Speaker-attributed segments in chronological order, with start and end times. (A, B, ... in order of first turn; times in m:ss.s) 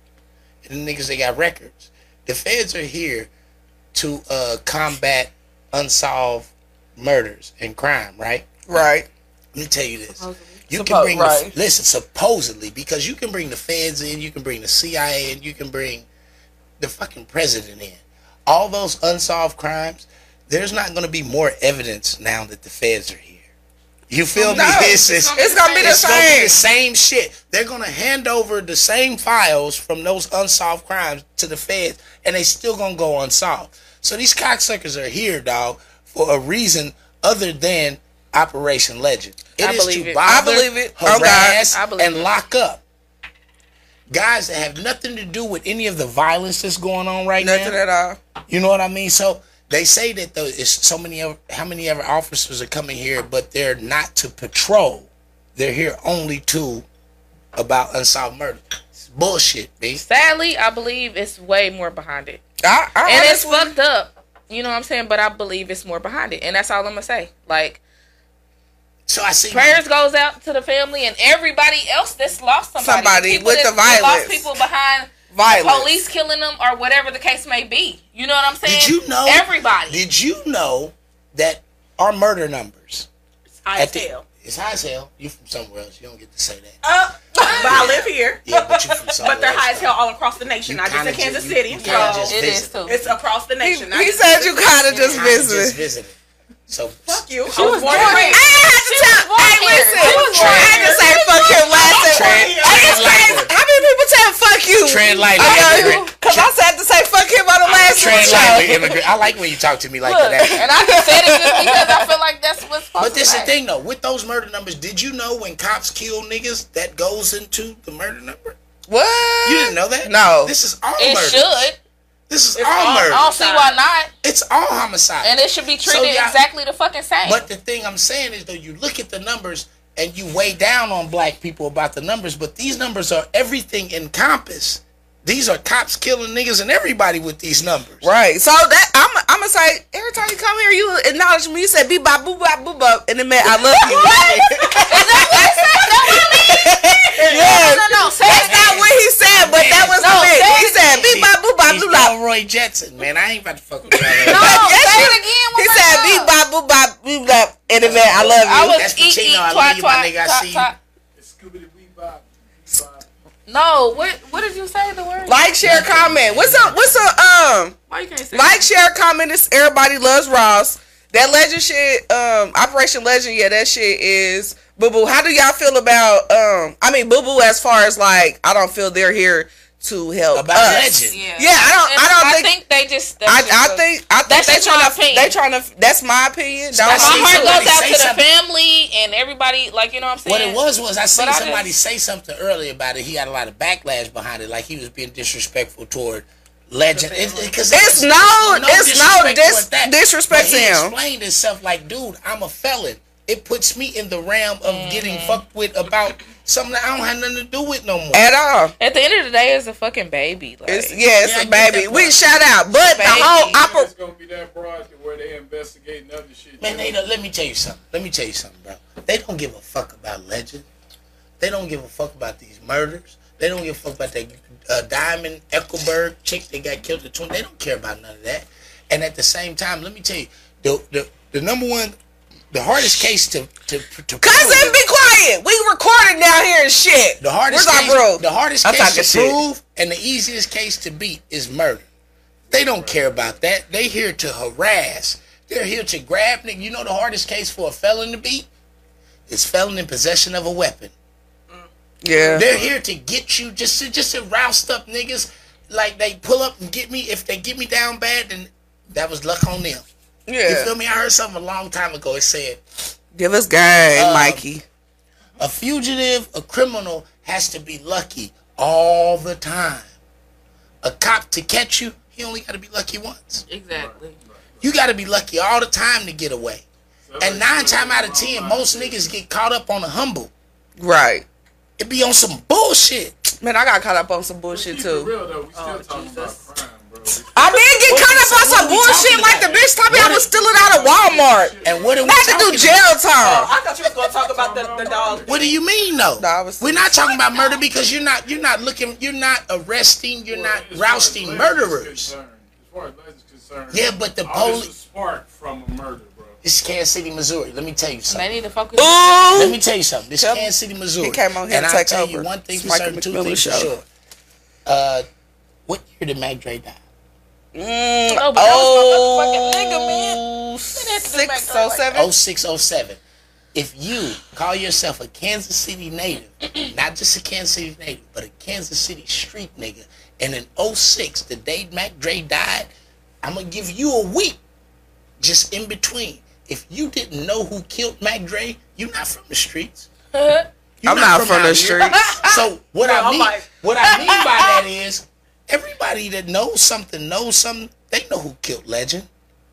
0:00.6-0:03.3 A
0:03.9-0:08.8 A
0:08.7-0:09.1 B
0:09.5-0:16.1 A
0:10.2-0:10.6 C
0:10.7-0:11.5 B
0:16.8-0:23.4 A
0:24.1-0:42.8 A
0:24.4-0:26.4 C
0:24.4-0:26.6 B
0:39.6-0:40.2 C
0:40.2-0:41.6 B
0:41.6-0:42.3 C
0:44.1-0:47.8 A
0:47.4-0:48.2 B
0:48.5-0:56.9 A
0:57.6-1:00.0 A
1:00.0-1:02.4 C
1:02.6-1:03.7 B
1:03.0-1:07.8 C
1:09.1-1:09.8 A
1:09.5-1:20.0 C
1:12.8-1:14.5 B
1:15.3-1:15.9 B
1:18.6-1:23.1 A
1:23.6-1:24.2 D
1:23.8-1:26.8 A
1:26.8-1:35.2 D
1:27.4-1:30.0 A
1:30.6-1:33.1 A
1:31.8-1:33.0 C
1:33.6-1:35.8 B
1:34.9-1:36.2 A
1:36.7-1:37.2 A
1:37.1-1:38.5 D
1:37.5-1:41.1 C
1:37.5-1:49.0 B
1:40.0-1:43.4 D
1:40.4-1:40.8 A
1:42.0-1:43.5 A
1:44.8-1:46.5 A
1:45.2-1:46.1 C
1:47.9-1:50.7 A
1:48.1-1:48.9 C
1:50.0-1:53.5 C
1:50.6-1:52.1 B
1:53.0-1:58.6 A
1:58.9-2:00.5 B
1:59.4-2:01.7 A
2:01.0-2:01.8 C
2:02.3-2:03.3 A
2:02.6-2:03.8 D
2:03.1-2:04.1 C
2:04.2-2:06.4 A
2:05.2-2:07.5 C
2:07.2-2:18.1 A
2:18.0-2:32.2 B
2:23.8-2:24.8 A
2:23.9-2:28.8 C
2:27.2-2:27.6 A
2:28.2-2:34.7 A
2:30.0-2:31.0 C
2:33.9-2:38.8 B
2:34.2-2:36.3 C
2:37.8-2:40.7 A
2:38.3-2:40.8 C
2:41.2-2:43.0 E
2:43.5-2:45.4 C
2:45.3-2:47.8 B
2:45.6-2:47.0 A
2:47.9-2:48.7 C
2:48.3-3:02.5 B
3:00.3-3:01.2 A
3:00.6-3:05.3 C
3:03.2-3:07.7 B
3:06.7-3:08.2 A
3:06.9-3:11.7 C
3:10.3-3:28.3 A
3:16.9-3:17.6 D
3:17.7-3:21.0 B
3:24.6-3:25.4 C
3:28.1-3:28.7 B
3:28.8-3:31.0 C
3:30.7-3:33.9 B
3:31.2-3:32.2 A
3:32.9-3:33.5 C
3:33.1-3:37.0 E
3:36.6-3:40.7 A
3:41.4-3:52.0 A
3:52.5-3:54.8 A
3:54.2-3:59.4 B
3:57.2-4:01.9 A
4:02.5-4:03.4 E
4:02.5-4:08.5 A
4:09.3-4:10.9 A
4:12.0-4:12.5 B
4:12.2-4:12.8 E
4:12.3-4:19.9 A
4:20.3-4:20.7 B
4:20.5-4:22.6 A
4:23.2-4:24.6 B
4:24.0-4:24.4 A
4:25.4-4:29.9 A
4:30.8-4:33.4 A
4:33.5-4:34.2 C
4:33.7-4:34.7 E
4:34.6-4:36.6 A
4:37.1-4:39.1 E
4:37.2-4:40.3 A
4:40.8-4:41.2 B
4:41.8-4:43.2 A
4:43.4-4:45.1 B
4:44.5-4:47.8 E
4:45.6-4:46.5 D
4:47.3-4:53.5 B
4:47.9-4:50.3 A
4:50.0-4:52.2 E
4:51.6-4:52.9 A
4:53.2-4:55.5 D
4:53.7-4:55.6 E
4:55.3-5:02.1 A
4:56.2-4:57.2 B
5:00.3-5:06.4 E
5:03.7-5:04.7 A
5:06.4-5:08.3 A
5:08.1-5:09.5 C
5:08.8-5:09.6 B
5:09.3-5:13.8 A
5:10.2-5:13.7 B
5:14.7-5:15.1 A
5:15.7-5:16.8 A
5:17.5-5:22.1 B
5:18.1-5:20.2 C
5:20.7-5:21.9 C
5:21.9-5:23.0 A
5:23.5-5:32.7 A
5:33.2-5:34.4 A
5:35.2-5:39.9 A
5:40.1-5:40.5 C
5:40.8-5:49.1 A
5:40.8-5:42.1 B
5:42.0-5:42.3 C
5:42.8-5:43.5 D